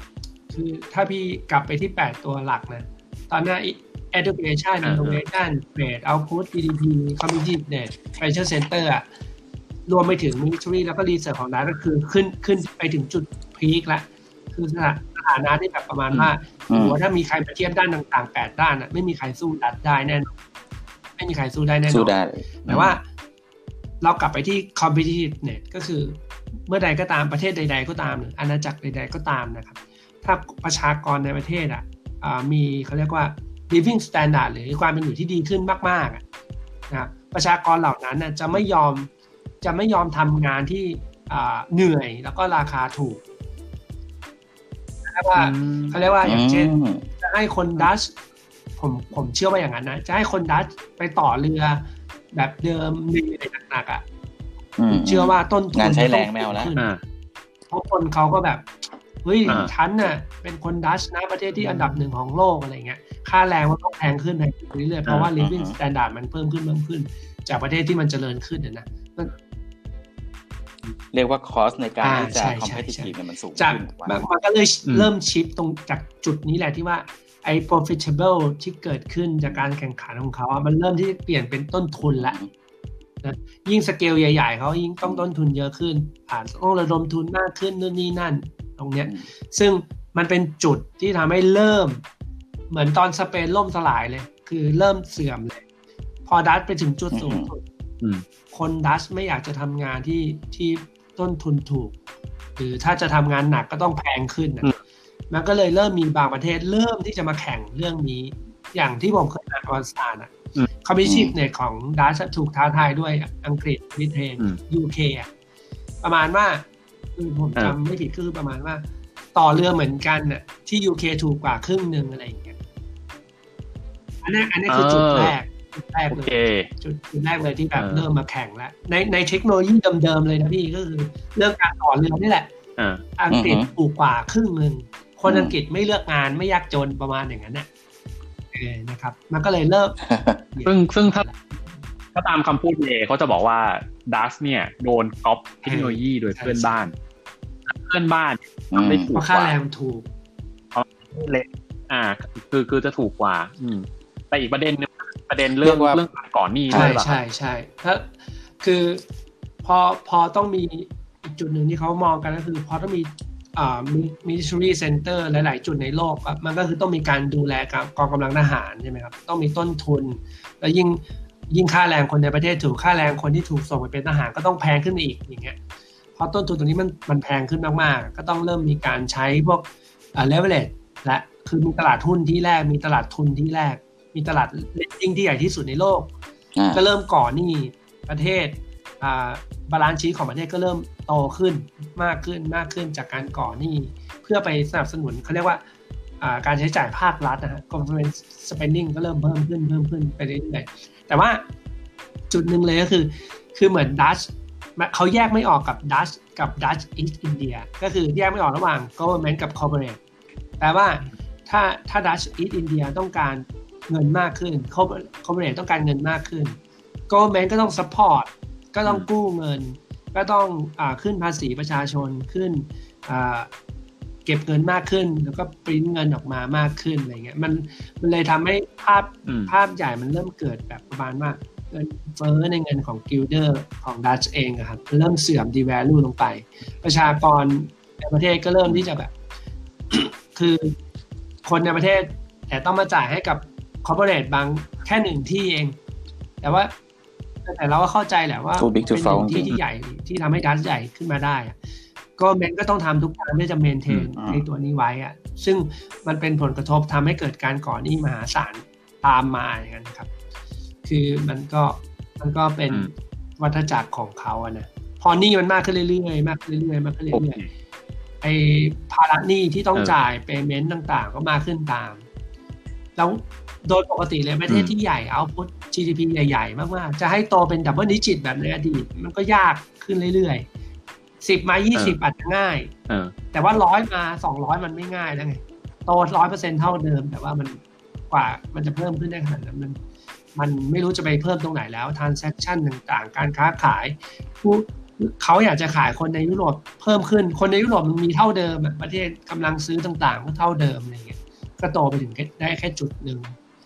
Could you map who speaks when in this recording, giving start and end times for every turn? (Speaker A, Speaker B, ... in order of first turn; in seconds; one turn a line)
Speaker A: 0.5-9.1
Speaker B: 4.8-5.2
Speaker A: 9.9-20.3
Speaker C: 16.7-17.0
Speaker A: 21.2-22.1
Speaker C: 21.9-23.0
Speaker A: 22.7-23.0
Speaker A: 24.0-36.2
Speaker A: 36.9-39.1
Speaker A: 39.6-43.2
Speaker A: 45.1-48.1
Speaker B: 45.4-46.0
Speaker C: 46.2-47.1
Speaker A: 48.8-54.0
Speaker C: 54.8-56.7
Speaker A: 54.9-56.9
Speaker A: 57.7-58.7
Speaker A: 59.2-69.3
Speaker B: 61.6-61.9
Speaker B: 65.1-65.3
Speaker C: 65.4-65.8
Speaker C: 71.1-74.2
Speaker A: 72.0-82.4
Speaker C: 82.2-82.5
Speaker A: 83.2-92.0
Speaker A: 92.7-95.6
Speaker A: 96.3-97.6
Speaker C: 97.1-97.5
Speaker A: 98.5-102.0
Speaker A: 102.6-104.8
Speaker A: 105.3-115.3
Speaker C: 111.0-111.3
Speaker A: 116.0-116.7
Speaker A: 117.2-118.8
Speaker A: 119.3-122.6
Speaker A: 124.2-132.5
Speaker B: 124.7-125.3
Speaker B: 126.1-126.7
Speaker B: 127.8-128.1
Speaker B: 132.8-133.0
Speaker A: 133.2-137.7
Speaker C: 133.3-133.7
Speaker C: 135.3-135.6
Speaker A: 138.5-141.5
Speaker C: 140.0-140.4
Speaker B: 140.7-141.3
Speaker B: 142.2-146.9
Speaker A: 145.6-146.8
Speaker B: 147.7-149.5
Speaker C: 148.7-149.1
Speaker A: 149.1-150.1
Speaker B: 150.7-157.2
Speaker C: 155.6-156.0
Speaker C: 156.7-157.0
Speaker A: 156.7-159.0
Speaker A: 159.6-175.6
Speaker A: 176.2-186.1
Speaker C: 186.6-186.8
Speaker A: 186.7-195.6
Speaker A: 196.2-201.5
Speaker A: 202.3-210.0
Speaker A: 210.6-216.6
Speaker A: 217.1-223.5
Speaker A: 224.3-239.1
Speaker B: 229.3-229.5
Speaker A: 239.9-240.8
Speaker A: 241.4-245.8
Speaker A: 246.4-246.7
Speaker A: 247.4-251.6
Speaker C: 248.6-249.6
Speaker A: 252.2-260.1
Speaker C: 254.2-254.4
Speaker A: 260.8-267.4
Speaker B: 267.1-267.5
Speaker A: 268.2-272.1
Speaker A: 273.0-280.5
Speaker B: 274.5-274.7
Speaker A: 281.2-282.7
Speaker B: 282.9-283.1
Speaker A: 283.3-289.8
Speaker A: 290.4-303.4